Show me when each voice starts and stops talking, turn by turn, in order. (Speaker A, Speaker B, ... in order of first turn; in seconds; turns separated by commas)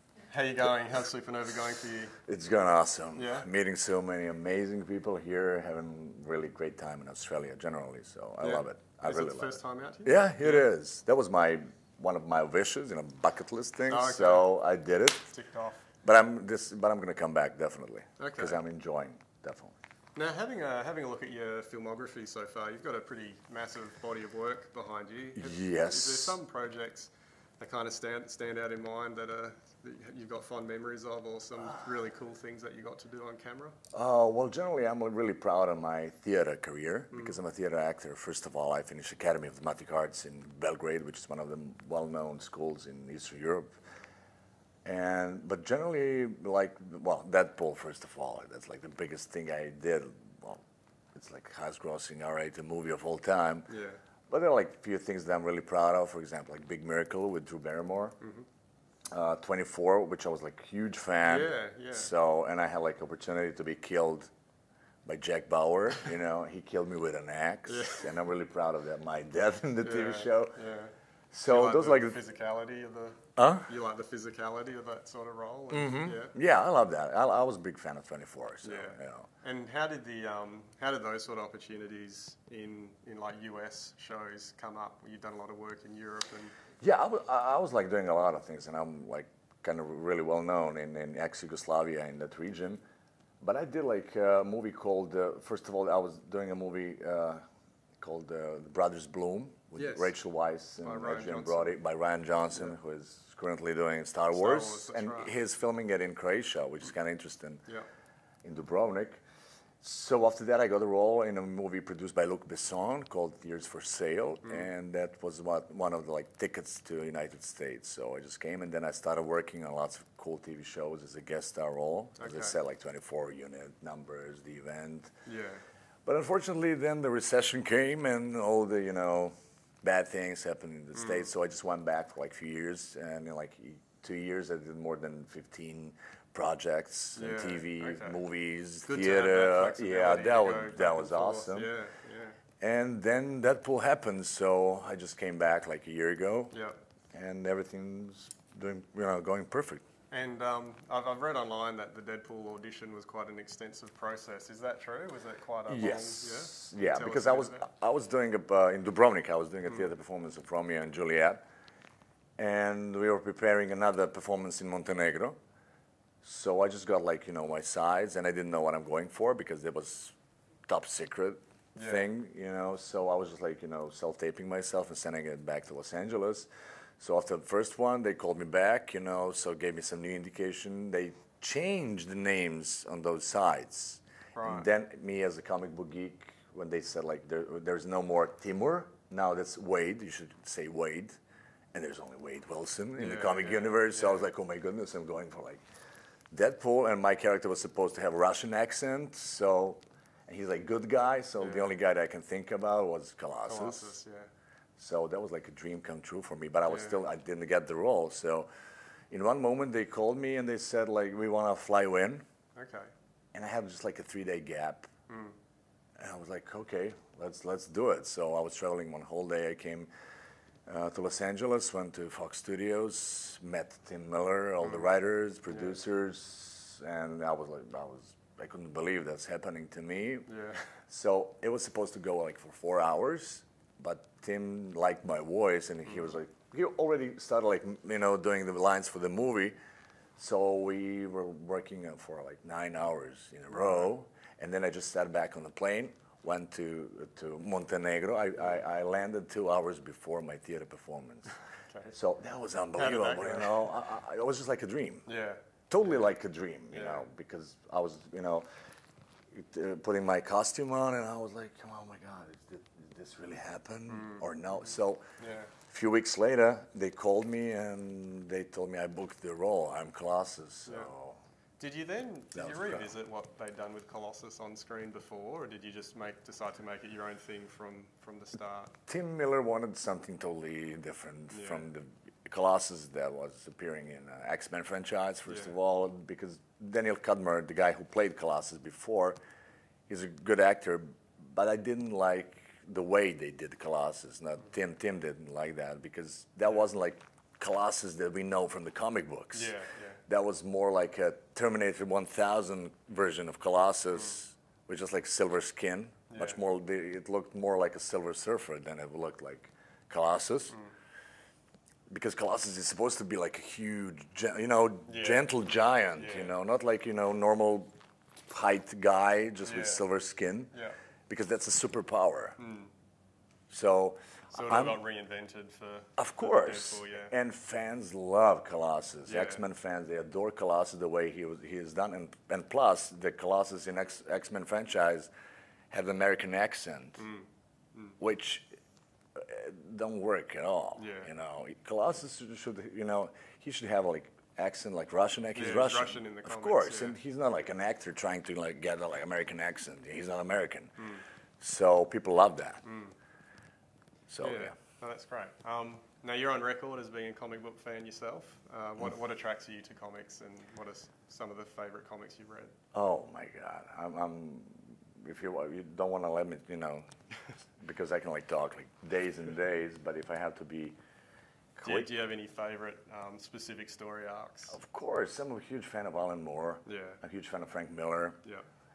Speaker A: 0.3-2.1, Speaker B: 2.3-9.5, Speaker A: 3.2-3.5, Speaker A: 8.4-10.7, Speaker B: 10.1-15.3, Speaker A: 13.9-14.5, Speaker A: 15.3-15.9, Speaker B: 16.0-19.8, Speaker A: 18.2-18.6, Speaker A: 20.1-33.8, Speaker B: 25.4-26.4, Speaker B: 33.9-43.7, Speaker A: 37.1-37.4, Speaker B: 44.9-50.6, Speaker B: 51.1-53.7, Speaker A: 53.7-54.0, Speaker B: 54.3-58.2, Speaker A: 58.2-58.5, Speaker B: 59.1-64.3, Speaker A: 61.2-62.1, Speaker B: 65.0-70.6, Speaker A: 67.7-68.2, Speaker A: 69.8-70.9, Speaker B: 71.3-72.2, Speaker A: 71.5-76.3, Speaker B: 73.4-73.7, Speaker B: 75.7-79.3, Speaker A: 78.6-86.5, Speaker B: 86.8-92.8, Speaker B: 93.4-97.4, Speaker B: 98.0-107.6, Speaker A: 99.8-100.2, Speaker A: 100.8-101.8, Speaker A: 104.3-105.3, Speaker B: 108.4-109.2, Speaker B: 109.8-125.1, Speaker A: 114.4-114.7, Speaker A: 122.2-122.6, Speaker A: 125.3-125.6, Speaker B: 126.1-141.7, Speaker A: 130.9-131.3, Speaker A: 137.2-138.2, Speaker A: 138.8-142.4, Speaker B: 142.6-146.5, Speaker A: 146.5-146.8, Speaker B: 147.1-149.8, Speaker A: 150.1-157.7, Speaker B: 155.7-161.4, Speaker B: 162.4-165.4, Speaker B: 166.2-170.2, Speaker B: 170.7-176.5, Speaker A: 171.8-172.1, Speaker B: 177.0-191.2, Speaker A: 184.3-184.7, Speaker B: 191.7-195.6, Speaker A: 193.0-194.3, Speaker B: 196.3-204.0, Speaker A: 201.4-201.7, Speaker A: 203.4-204.3, Speaker B: 204.8-208.5, Speaker A: 206.7-207.0, Speaker B: 209.1-212.2, Speaker A: 212.6-212.9, Speaker B: 213.3-214.9, Speaker A: 215.1-215.3, Speaker B: 216.0-219.9, Speaker B: 220.7-230.3, Speaker A: 224.6-224.9, Speaker A: 225.5-225.8, Speaker A: 230.3-230.7, Speaker B: 230.9-239.6, Speaker B: 240.2-251.3, Speaker B: 251.9-255.1, Speaker A: 252.7-253.7, Speaker A: 255.1-256.1, Speaker B: 255.7-258.5, Speaker A: 256.7-257.1, Speaker B: 259.3-265.0, Speaker A: 263.9-265.5, Speaker B: 265.7-271.2, Speaker A: 270.7-270.9, Speaker A: 271.6-278.8, Speaker B: 272.4-272.9, Speaker B: 278.9-289.2, Speaker A: 281.3-281.7, Speaker A: 285.3-285.6, Speaker B: 289.9-299.5, Speaker A: 299.3-300.0, Speaker B: 300.1-310.6, Speaker A: 303.9-304.2, Speaker A: 306.1-306.4, Speaker B: 311.9-317.7, Speaker A: 314.9-315.3, Speaker A: 316.0-316.3, Speaker B: 318.3-320.5, Speaker A: 319.4-319.9, Speaker B: 321.1-322.4, Speaker A: 322.4-322.7, Speaker B: 323.5-324.8, Speaker A: 324.3-327.1, Speaker B: 326.0-335.1, Speaker A: 329.1-329.4, Speaker B: 335.7-337.0, Speaker A: 337.0-338.0, Speaker B: 338.0-338.5, Speaker B: 339.2-350.8, Speaker A: 340.8-341.1, Speaker A: 345.4-347.0, Speaker A: 350.8-351.0, Speaker B: 351.4-352.6, Speaker A: 352.6-352.9, Speaker B: 354.1-354.5, Speaker A: 354.2-362.5, Speaker B: 362.7-366.9, Speaker B: 367.6-370.8, Speaker B: 371.6-371.9, Speaker A: 371.6-374.6, Speaker B: 374.5-378.2, Speaker A: 376.6-377.0